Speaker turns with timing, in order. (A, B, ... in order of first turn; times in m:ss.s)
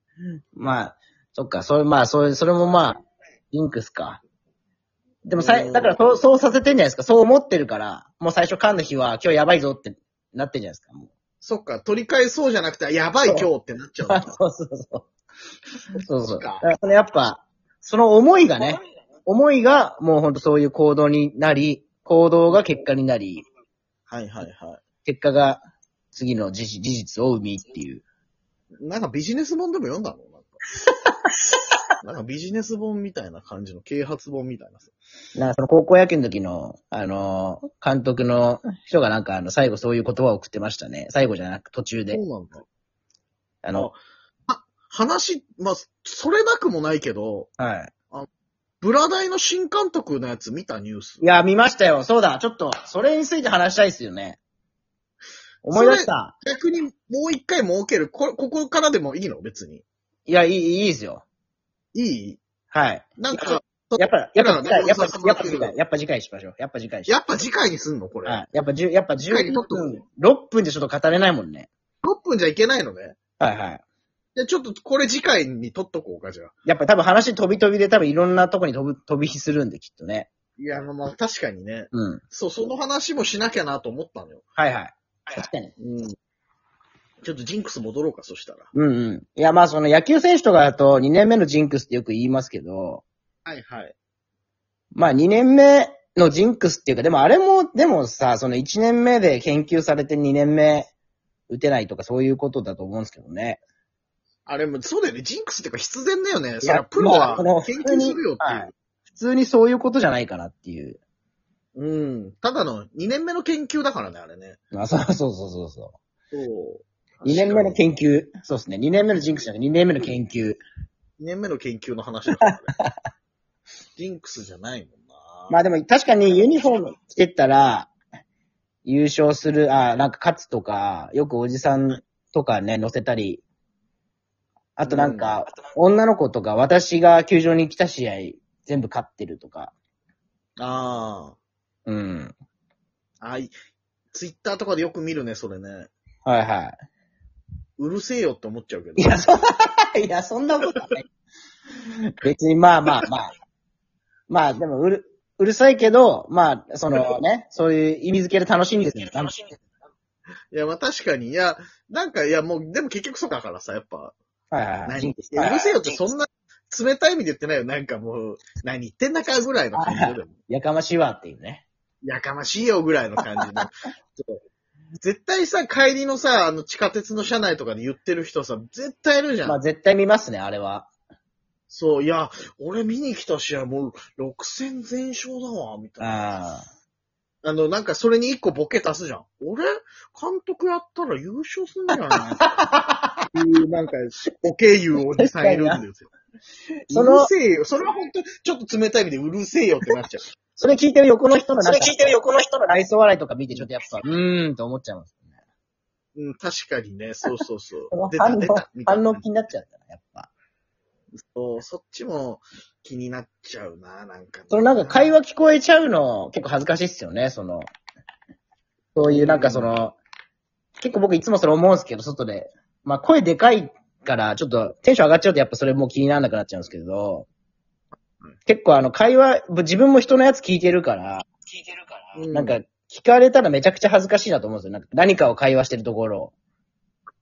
0:00.5-0:04.2 A
0:05.2-0:11.1 A
0:05.4-0:06.2 B
0:11.4-0:14.4 B
0:14.1-0:15.0 A
0:16.0-0:23.4 A
0:16.3-0:16.6 B
0:24.1-0:24.8 B
0:25.0-0:25.6 A
0:26.1-0:28.0 A
0:28.8-0:30.6 B
0:32.0-0:34.9 B
0:35.4-0:42.2 A
0:42.1-0:42.6 B
0:43.6-0:43.9 A
0:43.7-0:47.5 B
0:47.6-0:47.9 A
0:48.8-0:51.2 B
0:51.2-0:54.4 A
0:55.6-0:56.3 A
0:55.7-0:59.8 B
1:00.3-1:01.2 A
1:01.9-1:02.4 B
1:02.7-1:07.3 A
1:03.2-1:05.8 B
1:07.1-1:08.4 B
1:08.2-1:11.7 A
1:09.2-1:09.9 B
1:12.0-1:13.2 B
1:13.4-1:13.8 A
1:14.4-1:16.5 B
1:16.6-1:20.3 A
1:20.6-1:24.4 B
1:21.9-1:22.2 A
1:24.6-1:25.7 A
1:25.8-1:26.1 B
1:27.2-1:28.7 B
1:28.7-1:33.0 A
1:33.4-1:33.9 B
1:34.9-1:40.9 A
1:41.5-1:43.6 A
1:44.4-1:48.7 B
1:46.6-1:51.0 A
1:51.7-1:54.6 B
1:54.7-1:56.0 A
1:56.3-1:57.8 B
1:57.2-2:00.6 A
2:01.2-2:02.7 B
2:02.4-2:02.9 A
2:04.0-2:05.6 B
2:05.5-2:07.9 A
2:08.8-2:13.4 A
2:14.8-2:19.7 A
2:14.8-2:15.4 B
2:20.6-2:21.4 B
2:21.8-2:22.3 A
2:23.2-2:23.5 B
2:24.1-2:25.9 B
2:26.2-2:26.8 A
2:27.8-2:29.2 B
2:29.0-2:31.0 A
2:32.2-2:33.3 A
2:34.3-2:39.4 A
2:40.5-2:44.2 B
2:44.5-2:45.8 A
2:44.9-2:50.3 B
2:49.7-2:51.6 A
2:52.0-2:54.4 B
2:55.0-2:59.6 B
2:59.4-3:00.9 A
3:01.7-3:06.4 B
3:06.0-3:06.7 A
3:07.4-3:12.5 B
3:12.4-3:13.2 A
3:13.3-3:16.1 B
3:15.0-3:15.8 A
3:16.9-3:17.3 A
3:16.9-3:20.2 B
3:20.6-3:25.2 A
3:21.6-3:22.1 B
3:26.2-3:29.2 B
3:27.9-3:30.3 A
3:31.1-3:35.2 B
3:34.5-3:37.7 A
3:38.9-3:40.0 A
3:39.0-3:39.8 B
3:40.8-3:47.3 A
3:48.4-3:56.3 A
3:52.2-3:52.6 B